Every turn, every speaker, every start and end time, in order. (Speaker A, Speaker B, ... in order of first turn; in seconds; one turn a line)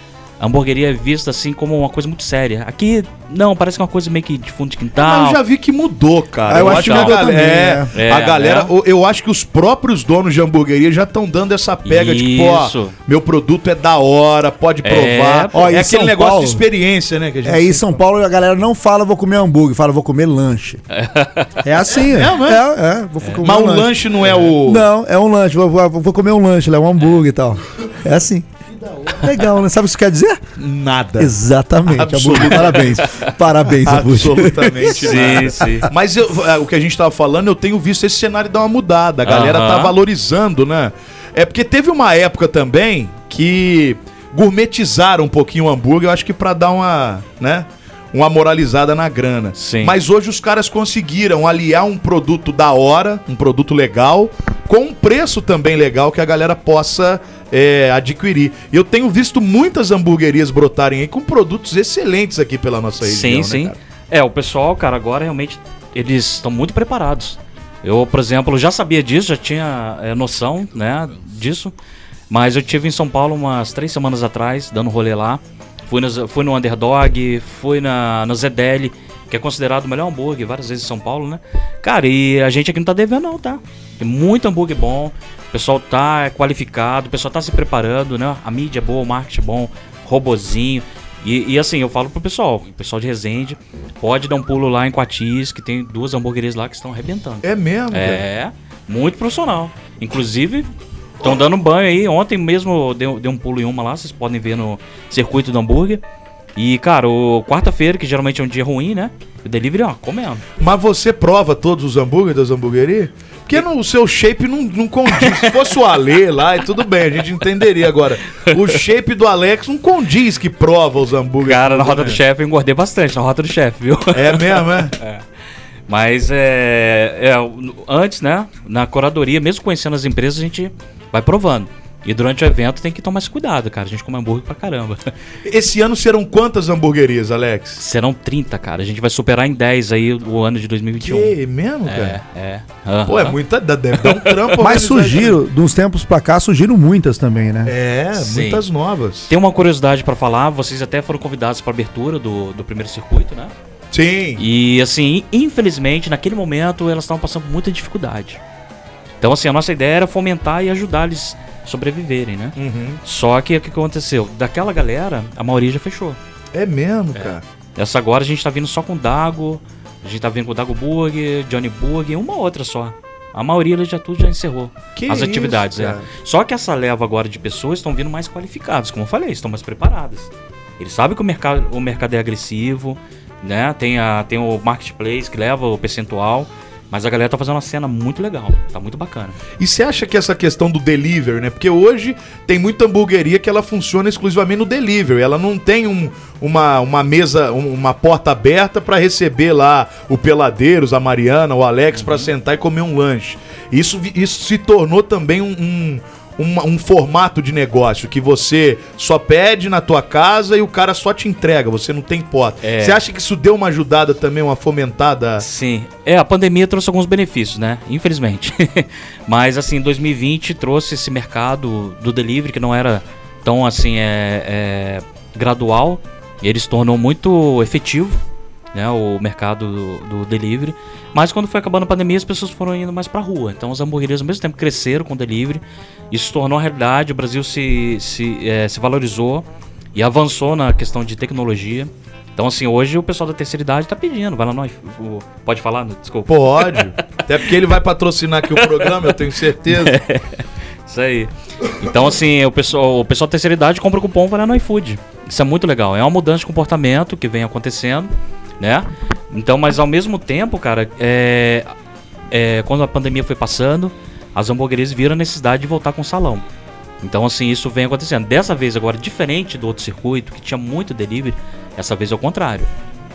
Speaker A: 0.4-5.4
Speaker B: 5.0-18.0
Speaker C: 6.5-7.9
Speaker A: 6.5-7.2
Speaker A: 7.9-8.7
Speaker A: 11.8-12.9
Speaker A: 14.8-15.7
Speaker C: 15.5-16.6
Speaker C: 17.4-20.8
Speaker A: 20.9-21.5
Speaker C: 21.6-28.5
Speaker B: 22.1-22.6
Speaker B: 23.4-24.9
Speaker C: 29.1-30.4
Speaker B: 30.6-31.4
Speaker C: 31.2-35.8
Speaker B: 31.9-33.0
Speaker B: 33.7-63.8
Speaker A: 35.0-35.9
Speaker A: 39.2-40.0
Speaker A: 49.6-50.0
Speaker A: 63.0-71.7
Speaker A: 72.3-100.7
Speaker B: 97.4-98.2
Speaker A: 101.2-106.0
Speaker A: 106.6-110.4
Speaker B: 110.6-122.2
Speaker A: 115.1-115.6
Speaker A: 121.4-125.2
Speaker B: 124.1-124.9
Speaker A: 125.9-135.1
Speaker B: 135.4-137.8
Speaker A: 137.8-143.4
Speaker B: 141.0-142.2
Speaker B: 143.1-145.4
Speaker A: 143.9-144.5
Speaker C: 144.6-147.7
Speaker B: 147.7-149.3
Speaker A: 148.2-148.6
Speaker A: 149.3-153.5
Speaker B: 153.9-154.4
Speaker A: 154.4-158.4
Speaker A: 159.2-166.2
Speaker B: 162.6-163.0
Speaker B: 166.5-167.4
Speaker A: 167.2-189.4
Speaker B: 175.0-176.1
Speaker B: 189.6-215.4
Speaker A: 201.9-202.3
Speaker A: 212.6-213.0
Speaker A: 215.4-228.2
Speaker A: 228.7-246.9
Speaker B: 246.3-249.9
Speaker A: 248.6-249.2
Speaker A: 249.7-261.7
Speaker A: 262.3-266.4
Speaker A: 267.0-272.7